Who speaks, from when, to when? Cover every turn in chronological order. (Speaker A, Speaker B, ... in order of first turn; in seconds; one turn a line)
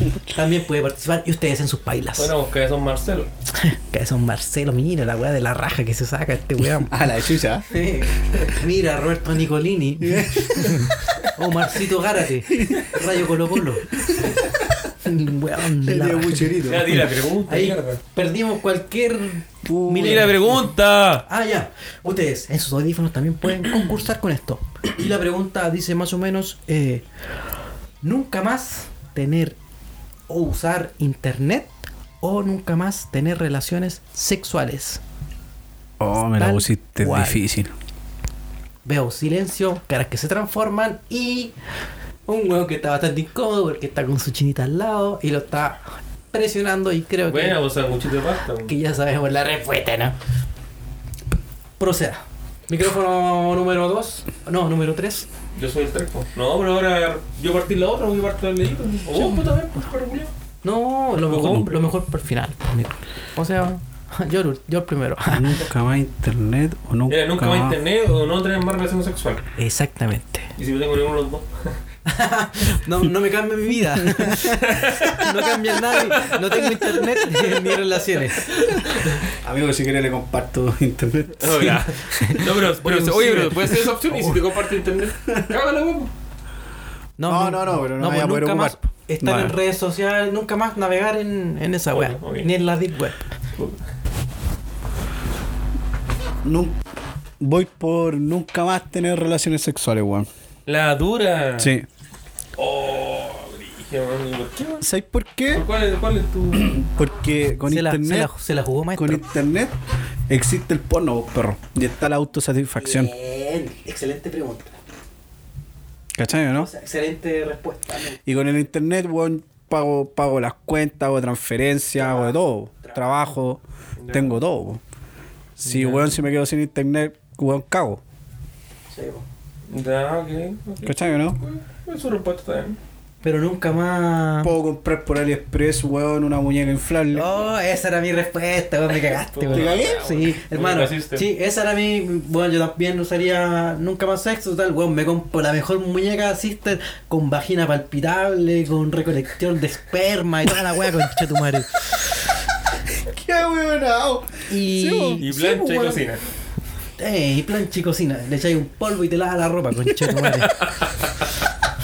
Speaker A: 0.2-2.3
Speaker B: 2.1-3.3
Speaker A: 3.5-7.0
Speaker C: 6.6-7.8
Speaker A: 7.7-13.9
Speaker C: 10.0-11.3
Speaker C: 12.5-12.9
Speaker C: 14.0-14.7
Speaker A: 15.0-16.6
Speaker C: 15.8-17.1
Speaker B: 16.6-18.0
Speaker A: 17.5-20.6
Speaker C: 19.6-20.5
Speaker B: 20.0-21.2
Speaker A: 21.2-27.1
Speaker A: 28.0-29.6
Speaker A: 30.3-35.0
Speaker C: 36.0-37.7
Speaker A: 36.4-37.4
Speaker A: 38.8-41.5
Speaker A: 42.3-47.6
Speaker B: 47.3-48.7
Speaker A: 48.7-50.1
Speaker A: 51.8-55.3
Speaker B: 55.5-60.3
Speaker A: 59.1-59.4
Speaker A: 60.6-65.6
Speaker B: 61.3-61.7
Speaker C: 65.3-67.8
Speaker B: 67.1-69.5
Speaker A: 69.6-70.5
Speaker B: 70.6-71.5
Speaker A: 72.1-78.5
Speaker B: 74.4-75.3
Speaker B: 76.1-77.8
Speaker B: 78.5-79.2
Speaker C: 79.4-81.8
Speaker B: 81.4-86.1
Speaker A: 82.0-84.4
Speaker A: 87.2-93.3
Speaker C: 87.2-89.5
Speaker B: 91.9-92.5
Speaker C: 96.4-96.8
Speaker C: 97.4-100.3
Speaker B: 100.7-101.7
Speaker C: 101.6-101.9
Speaker B: 102.6-104.9
Speaker C: 104.8-105.7
Speaker B: 105.5-106.8
Speaker C: 106.5-108.3
Speaker A: 107.7-109.3
Speaker C: 108.9-109.8
Speaker C: 110.3-113.1
Speaker A: 112.8-114.7
Speaker C: 116.1-116.7
Speaker A: 116.5-118.2
Speaker C: 118.2-124.8
Speaker A: 122.0-122.3
Speaker B: 124.0-124.4
Speaker C: 125.6-128.0
Speaker A: 125.7-126.0
Speaker A: 128.9-129.2
Speaker B: 129.7-132.8
Speaker C: 130.8-131.4
Speaker A: 133.2-134.5
Speaker C: 134.4-137.4
Speaker A: 137.1-151.9
Speaker B: 139.1-141.3
Speaker C: 139.5-140.0
Speaker C: 152.9-156.0
Speaker A: 154.5-155.2
Speaker B: 155.2-156.2
Speaker A: 157.0-160.5
Speaker B: 160.5-160.9